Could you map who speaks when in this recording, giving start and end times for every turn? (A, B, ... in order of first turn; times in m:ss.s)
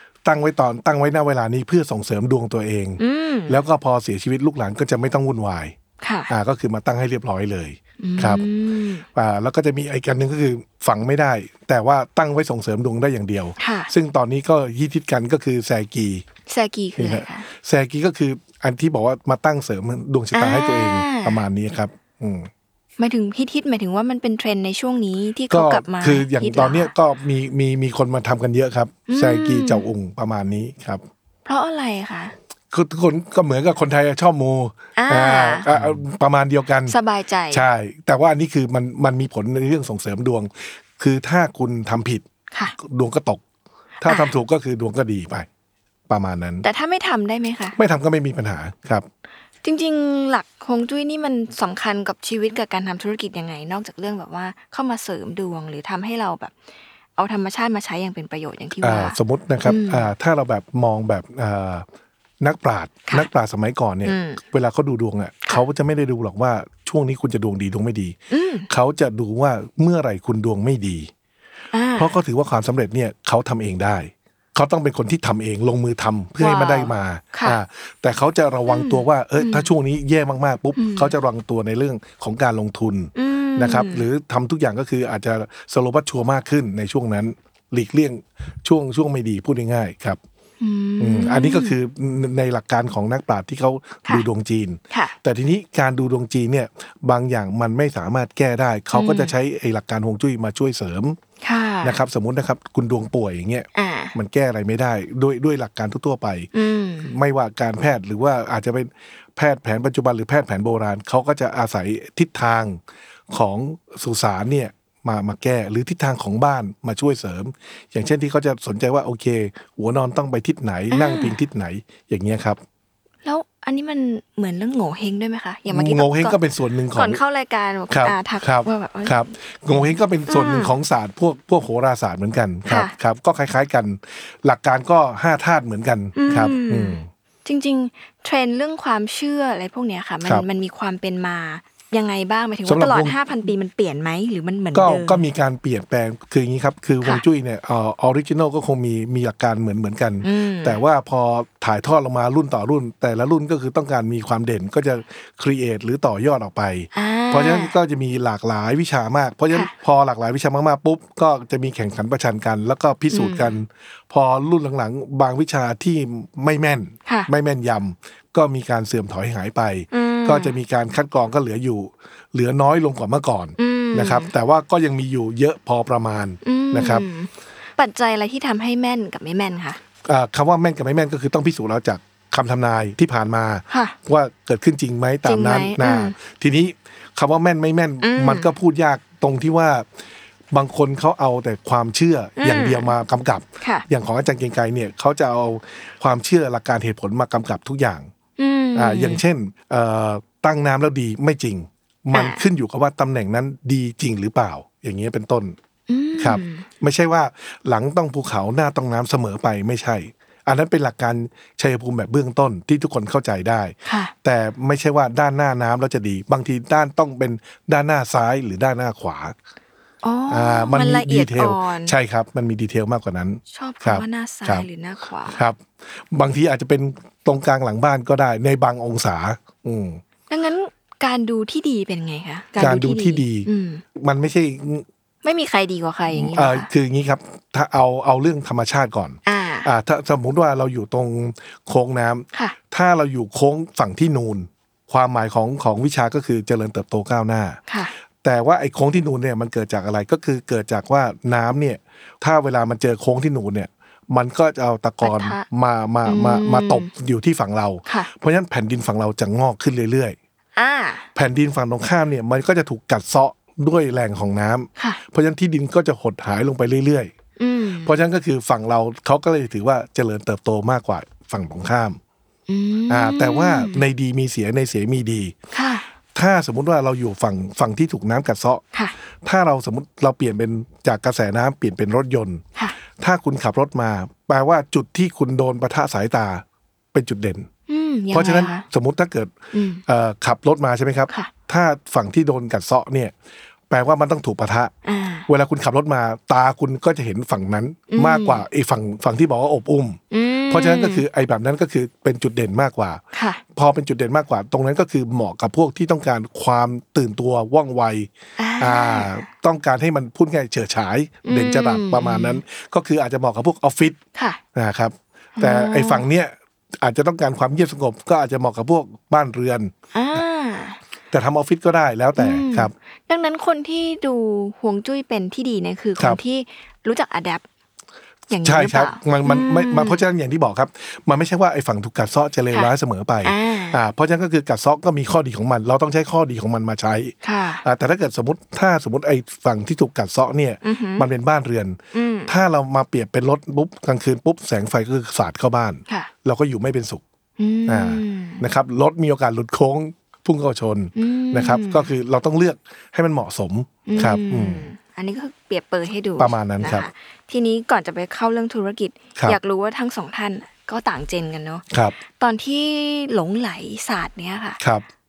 0:00.2-0:05.7 A
0:03.0-0:03.6 B
0:06.0-0:06.3 B
0:06.3-0:08.4 A
0:08.0-0:09.0 B
0:09.1-0:16.2 A
0:13.6-0:13.9 B
0:16.5-0:17.5 B
0:17.0-0:22.5 A
0:20.3-0:21.4 B
0:23.0-0:26.9 B
0:25.5-0:31.0 A
0:29.1-0:29.8 B
0:31.4-0:32.3 B
0:32.7-0:37.0 A
0:35.0-0:35.7 B
0:36.9-0:37.6 B
0:37.5-0:42.2 A
0:42.8-0:43.4 A
0:44.0-0:45.5 A
0:44.0-0:44.3 B
0:46.1-0:46.6 A
0:46.6-0:47.8 B
0:47.8-0:49.1 A
0:49.6-0:56.5 B
0:57.2-1:00.0 B
0:58.8-1:01.8 A
1:02.4-1:08.2 A
1:04.0-1:04.4 B
1:08.3-1:08.7 B
1:08.7-1:11.1 A
1:11.7-1:12.1 B
1:12.0-1:30.2 A
1:16.4-1:17.6 B
1:18.7-1:19.7 B
1:20.8-1:21.1 B
1:23.1-1:24.0 B
1:30.6-1:31.7 B
1:31.0-1:41.2 A
1:38.9-1:39.3 B
1:41.4-1:42.0 B
1:41.8-1:46.5 A
1:43.7-1:44.1 B
1:46.5-1:47.1 B
1:47.0-1:52.8 A
1:53.3-2:02.6 A
2:00.9-2:01.4 B
2:03.2-2:06.4 B
2:05.7-2:07.2 A
2:06.9-2:10.7 B
2:07.9-2:17.1 A
2:16.1-2:25.2 B
2:22.6-2:23.1 A
2:24.7-2:57.0 A
2:30.2-2:30.8 B
2:36.9-2:37.7 B
2:43.1-2:43.5 B
2:49.9-2:50.5 B
2:53.6-2:54.3 B
2:56.4-2:59.8 B
3:00.0-3:09.9 A
3:05.2-3:06.1 B
3:08.0-3:08.5 B
3:10.5-3:18.1 A
3:12.4-3:12.9 B
3:18.4-3:19.2 B
3:18.7-3:25.6 A
3:22.1-3:22.4 B
3:25.9-3:26.6 B
3:26.2-3:39.3 A
3:33.8-3:34.1 B
3:40.0-3:41.9 B
3:40.3-3:44.7 A
3:43.5-3:45.4 B
3:45.3-3:50.0 A
3:50.3-3:53.8 B
3:52.6-3:54.8 A
3:55.2-3:56.7 B
3:56.1-4:07.6 A
3:59.2-3:59.7 B
4:07.7-4:07.9 B
4:08.2-4:20.2 A
4:15.0-4:15.4 B
4:16.0-4:16.9 B
4:20.6-4:21.0 B
4:21.1-4:27.1 A
4:27.4-4:27.9 B
4:27.8-4:32.0 A
4:32.5-4:33.8 B
4:32.9-4:35.3 A
4:35.5-4:35.8 B
4:36.1-4:38.6 A
4:39.2-4:42.4 A
4:43.0-4:47.5 A
4:47.7-4:48.6 B
4:48.1-4:49.3 A
4:49.5-4:49.8 B
4:49.8-4:53.1 A
4:53.7-4:54.7 A
4:54.8-4:55.3 B
4:55.3-5:03.0 A
4:57.9-4:58.4 B
5:00.1-5:01.0 B
5:03.1-5:03.4 B
5:03.5-5:14.0 A
5:08.4-5:09.2 B
5:11.2-5:12.4 B
5:14.1-5:14.4 B
5:14.5-5:20.2 A
5:15.4-5:16.0 B
5:19.9-5:20.8 B
5:21.1-5:22.7 A
5:22.2-5:27.4 B
5:28.3-5:30.0 B
5:28.4-5:47.0 A
5:33.2-5:33.8 B
5:37.2-5:37.6 B
5:40.6-5:41.0 B
5:41.9-5:42.3 B
5:47.4-5:48.4 B
5:47.7-5:54.7 A
5:51.0-5:51.9 B
5:53.8-6:04.6 B
5:56.2-5:56.9 A
6:01.7-6:02.0 A
6:04.6-6:04.9 A